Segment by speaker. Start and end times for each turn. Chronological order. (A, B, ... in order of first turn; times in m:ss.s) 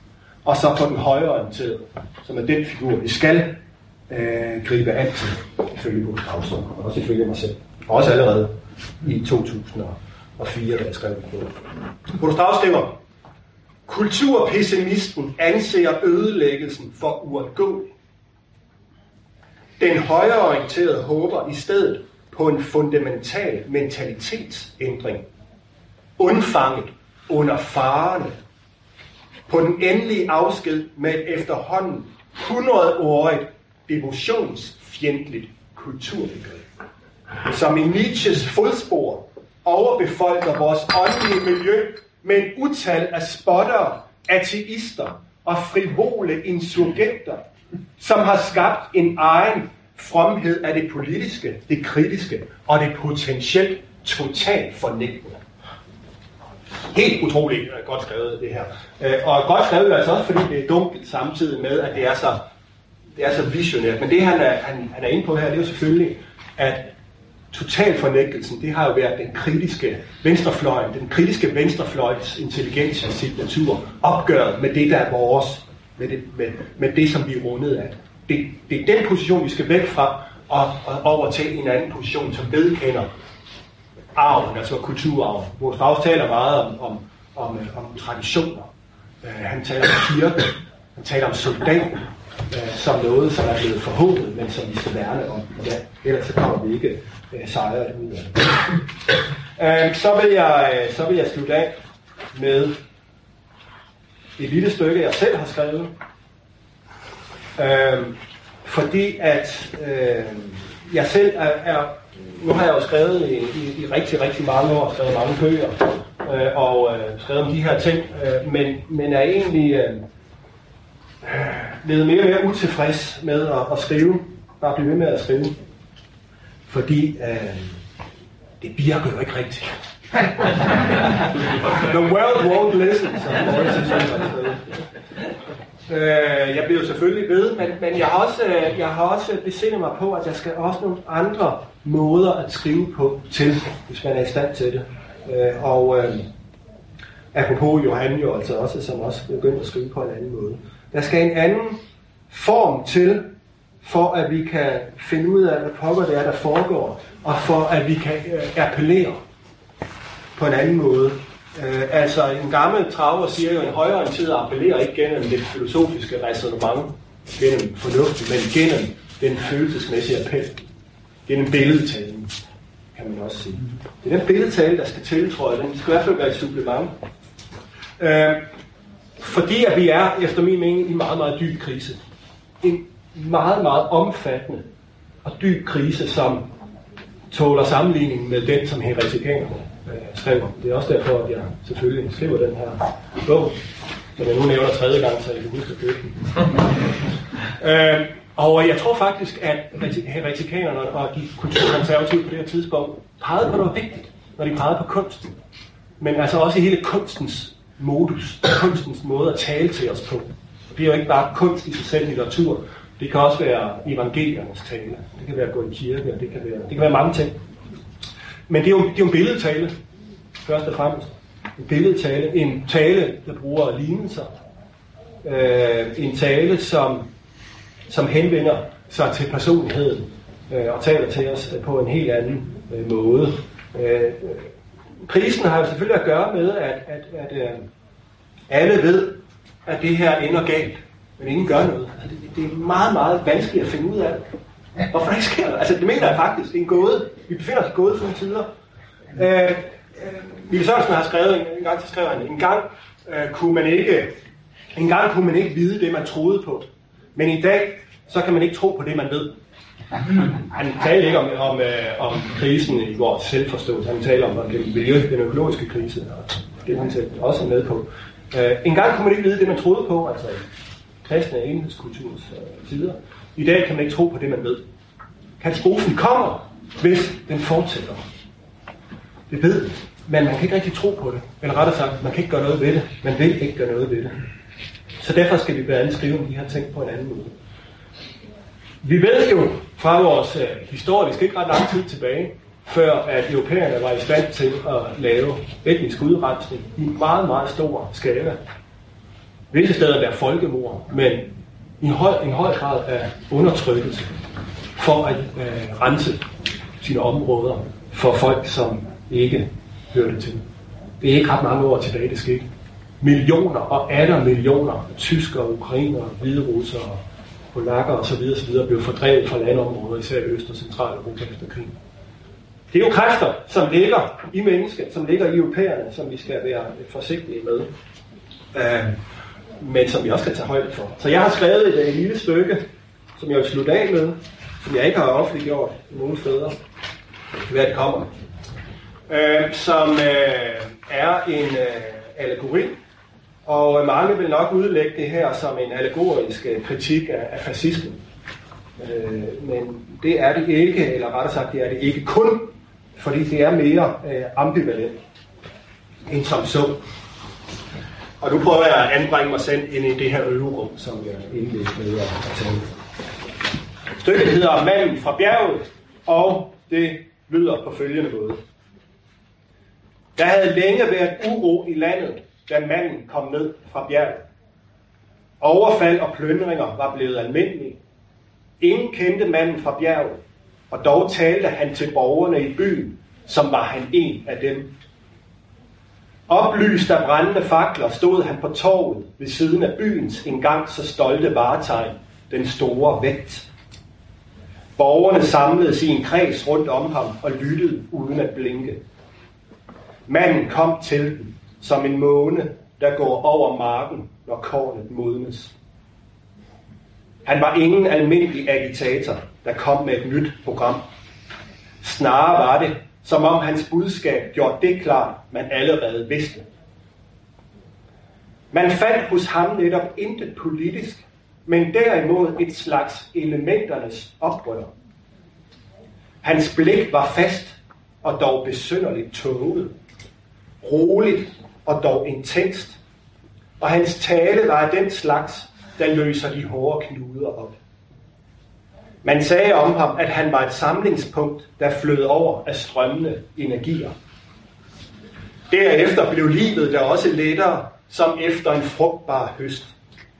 0:00.4-0:03.6 A
0:04.1-0:11.6 A
0:12.1-0:13.0 A
0:13.8-0:17.9 A
0:19.8-0:25.2 A
0:26.2-0:28.4 A
0:29.5-0:36.6 A
0:37.4-0:47.4 A
0:48.0-0:55.4 A
0:56.9-1:02.5 A
1:03.2-1:06.9 A
1:07.5-1:23.1 A
1:24.1-1:28.7 A
1:29.2-1:38.8 A
1:39.6-1:41.7 A
1:42.3-1:42.8 A
1:44.4-1:45.9 A
1:47.6-2:00.0 A
2:01.2-2:05.6 A
2:06.7-2:07.8 A
2:08.6-2:09.7 A
2:10.4-2:10.9 A
2:11.7-2:14.6 A
2:15.9-2:26.3 A
2:27.3-2:39.2 A
2:40.4-2:50.6 A
2:51.3-2:52.3 A
2:52.9-2:56.9 A
2:58.0-2:58.5 A
2:59.2-3:02.0 A
3:02.6-3:04.7 A
3:05.2-3:06.5 A
3:07.3-3:13.6 A
3:14.2-3:16.2 A
3:17.6-3:25.4 A
3:26.0-3:37.4 A
3:38.5-3:39.7 A
3:40.4-3:44.3 A
3:45.2-3:47.1 A
3:47.9-3:54.5 A
3:55.0-3:57.7 A
3:58.5-4:04.2 A
4:04.9-4:08.5 A
4:09.1-4:14.1 A
4:14.7-4:19.4 A
4:20.2-4:30.4 A
4:31.0-4:34.6 A
4:35.4-4:38.0 A
4:39.3-4:44.2 A
4:45.0-4:47.4 A
4:48.8-4:58.4 A
4:59.5-5:04.1 A
5:04.8-5:06.2 A
5:06.8-5:10.4 A
5:11.0-5:12.4 A
5:13.0-5:17.0 A
5:17.5-5:21.7 A
5:22.7-5:27.7 A
5:28.5-5:29.0 A
5:29.6-5:32.6 A
5:33.2-5:36.6 A
5:37.4-5:38.1 A
5:39.1-5:42.8 A
5:43.4-5:48.0 A
5:48.8-5:55.0 A
5:56.1-5:56.8 A
5:58.2-6:02.7 A
6:04.0-6:08.4 A
6:10.2-6:14.3 A
6:15.4-6:17.8 A
6:18.6-6:24.7 A
6:26.3-6:33.5 A
6:34.8-6:38.8 A
6:40.1-6:45.5 A
6:47.2-6:50.8 A
6:51.8-6:56.5 A
6:58.5-7:04.7 A
7:06.2-7:09.7 A
7:10.6-7:12.8 A
7:13.6-7:17.6 A
7:19.0-7:23.9 A
7:25.5-7:29.7 A